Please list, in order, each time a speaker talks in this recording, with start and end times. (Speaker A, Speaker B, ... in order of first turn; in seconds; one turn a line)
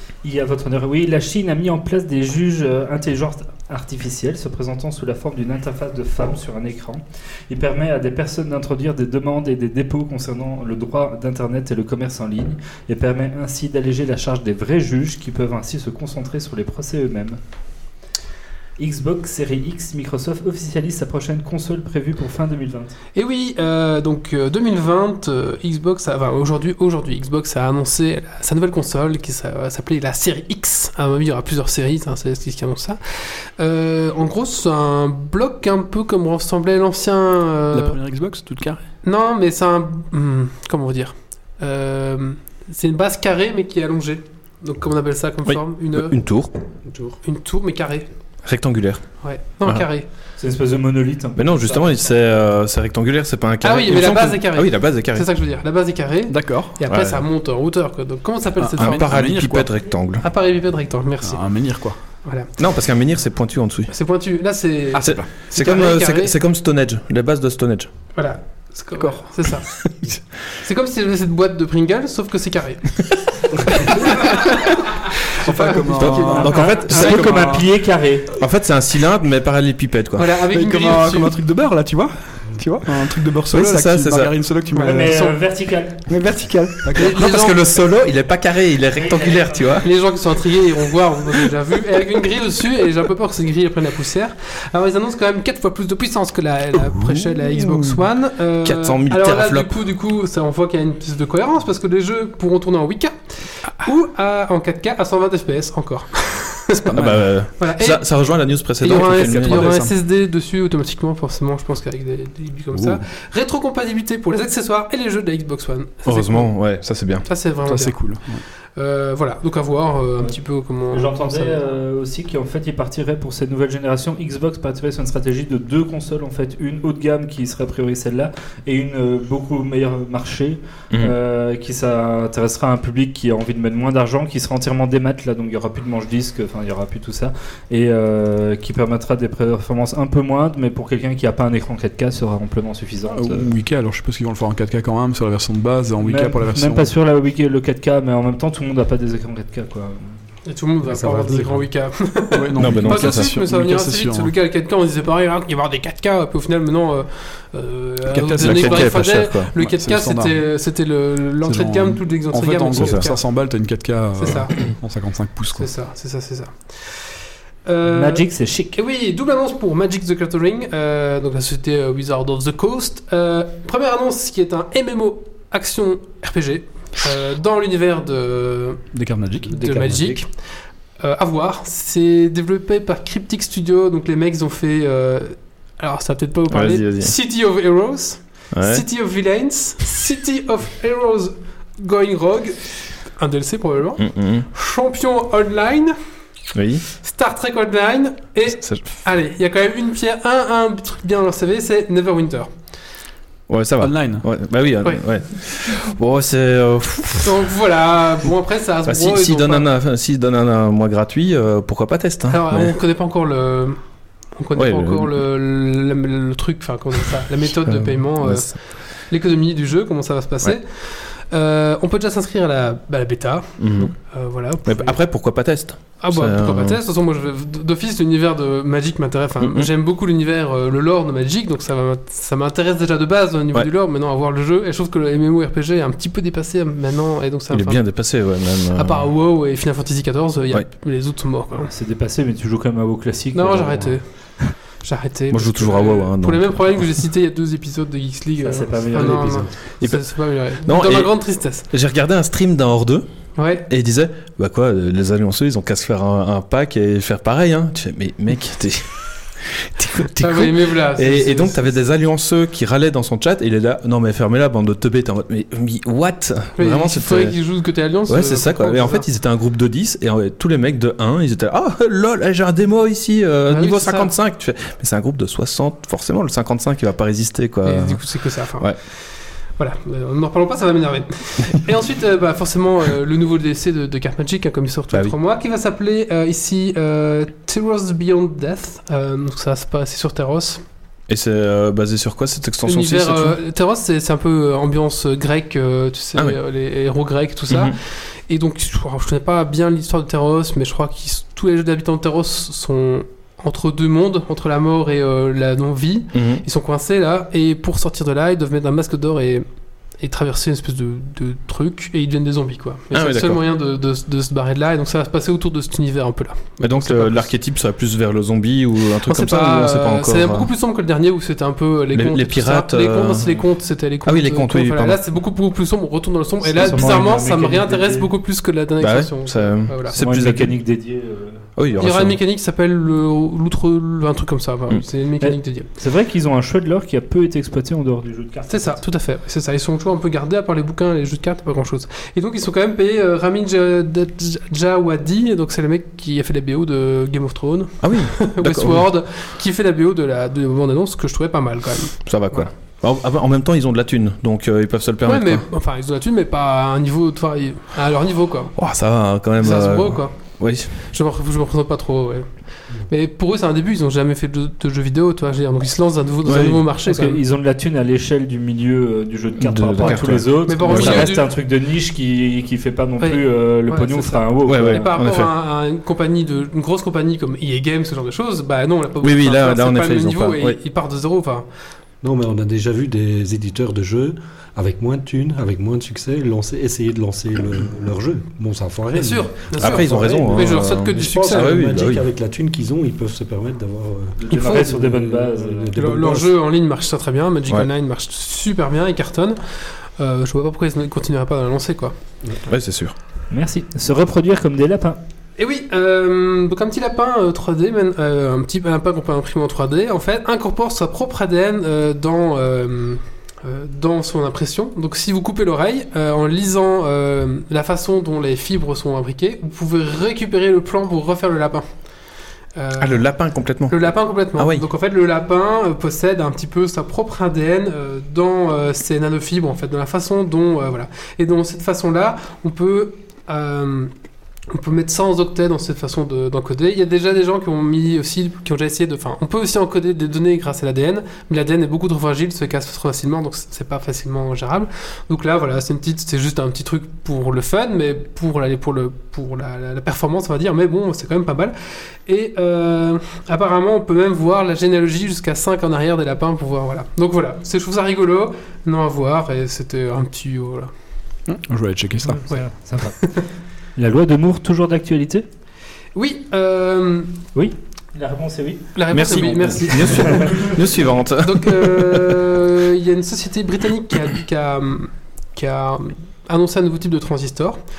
Speaker A: 0.2-17.4
Speaker A: 18.8-22.9
Speaker B: 23.1-38.0
Speaker C: 37.7-38.8
Speaker B: 39.0-46.2
Speaker D: 45.5-46.5
Speaker B: 46.9-48.1
Speaker D: 48.4-49.0
Speaker B: 49.2-50.1
Speaker A: 50.4-52.0
Speaker D: 51.4-55.3
Speaker B: 53.6-59.1
Speaker C: 56.3-56.8
Speaker D: 56.9-57.2
Speaker C: 58.6-59.7
Speaker D: 58.8-60.2
Speaker B: 60.2-61.5
Speaker C: 61.2-62.0
Speaker B: 62.2-62.5
Speaker D: 62.6-63.9
Speaker B: 63.9-66.3
Speaker C: 65.0-65.7
Speaker D: 65.0-67.9
Speaker B: 68.2-69.7
Speaker B: 70.6-74.7
Speaker C: 75.4-77.7
Speaker B: 75.4-76.9
Speaker D: 76.0-77.5
Speaker A: 76.3-78.3
Speaker D: 78.4-80.3
Speaker B: 80.2-81.4
Speaker C: 80.5-85.3
Speaker D: 83.5-84.3
Speaker B: 84.7-85.3
Speaker A: 84.8-86.0
Speaker C: 86.1-87.1
Speaker B: 86.9-87.6
Speaker D: 86.9-89.9
Speaker A: 89.0-89.8
Speaker B: 89.8-106.9
Speaker D: 97.1-97.9
Speaker D: 98.6-99.8
Speaker D: 106.9-109.8
Speaker C: 106.9-107.3
Speaker B: 107.6-108.2
Speaker B: 108.8-116.5
Speaker C: 108.9-110.0
Speaker C: 112.7-113.0
Speaker D: 116.1-117.2
Speaker B: 117.2-118.2
Speaker C: 117.7-118.4
Speaker B: 118.8-121.7
Speaker A: 120.9-143.5
Speaker C: 143.1-146.9
Speaker A: 146.0-150.2
Speaker B: 150.5-163.3
Speaker E: 150.8-151.6
Speaker C: 152.3-154.3
Speaker D: 152.6-153.3
Speaker C: 158.1-159.1
Speaker D: 158.4-159.5
Speaker C: 159.6-160.5
Speaker C: 161.4-165.7
Speaker D: 162.8-163.1
Speaker B: 164.2-164.6
Speaker B: 165.6-167.1
Speaker B: 167.7-178.8
Speaker A: 167.9-168.8
Speaker C: 178.9-180.2
Speaker B: 179.5-180.3
Speaker B: 181.0-195.9
Speaker D: 186.5-187.1
Speaker D: 188.5-188.8
Speaker D: 194.0-194.5
Speaker D: 196.5-196.8
Speaker B: 197.0-202.5
Speaker D: 198.5-198.9
Speaker D: 203.5-207.5
Speaker C: 203.8-204.3
Speaker B: 207.2-209.7
Speaker D: 208.9-212.8
Speaker B: 212.3-213.8
Speaker B: 214.3-218.6
Speaker D: 214.6-215.2
Speaker D: 217.5-218.5
Speaker B: 219.1-225.0
Speaker D: 223.6-223.9
Speaker D: 224.6-226.8
Speaker B: 226.0-237.9
Speaker D: 229.4-229.7
Speaker D: 237.5-239.1
Speaker B: 238.7-241.7
Speaker A: 241.5-244.5
Speaker B: 243.3-244.1
Speaker B: 244.8-251.7
Speaker D: 245.3-247.0
Speaker A: 248.4-249.6
Speaker D: 249.8-253.1
Speaker B: 253.4-253.7
Speaker D: 253.7-267.4
Speaker B: 260.2-261.8
Speaker B: 266.6-269.1
Speaker D: 268.1-278.8
Speaker B: 273.5-274.1
Speaker B: 277.6-290.6
Speaker D: 291.1-293.4
Speaker B: 292.6-309.5
Speaker D: 297.5-297.8
Speaker D: 306.1-306.4
Speaker B: 310.0-317.3
Speaker D: 312.9-313.4
Speaker D: 316.6-320.5
Speaker B: 319.1-330.0
Speaker D: 321.9-323.4
Speaker D: 324.0-325.0
Speaker A: 326.4-328.1
Speaker D: 328.8-330.6
Speaker A: 330.0-331.5
Speaker D: 331.6-332.2
Speaker B: 331.8-335.7
Speaker A: 335.2-338.8
Speaker B: 338.5-352.5
Speaker D: 347.8-348.9
Speaker D: 352.1-355.4
Speaker B: 355.1-358.5
Speaker D: 358.6-360.7
Speaker B: 359.4-360.2
Speaker B: 360.8-367.2
Speaker D: 366.2-366.6
Speaker A: 366.8-375.0
Speaker D: 369.4-371.1
Speaker B: 370.5-371.3
Speaker B: 373.0-381.5
Speaker D: 374.4-375.3
Speaker D: 379.0-380.6
Speaker E: 382.0-396.3
Speaker B: 388.9-391.6
Speaker D: 389.6-392.1
Speaker A: 394.2-395.7
Speaker B: 394.3-394.7
Speaker B: 395.8-401.9
Speaker D: 402.5-402.9
Speaker A: 403.3-405.0
Speaker B: 405.4-421.7
Speaker B: 422.6-423.1
Speaker D: 422.8-424.7
Speaker B: 423.7-433.9
Speaker B: 434.5-460.7
Speaker C: 461.3-462.2
Speaker A: 462.3-463.2
Speaker A: 463.8-465.2
Speaker B: 465.9-467.1
Speaker A: 467.4-469.0
Speaker B: 468.8-470.5
Speaker D: 468.9-472.2
Speaker A: 470.1-470.5
Speaker B: 471.2-477.6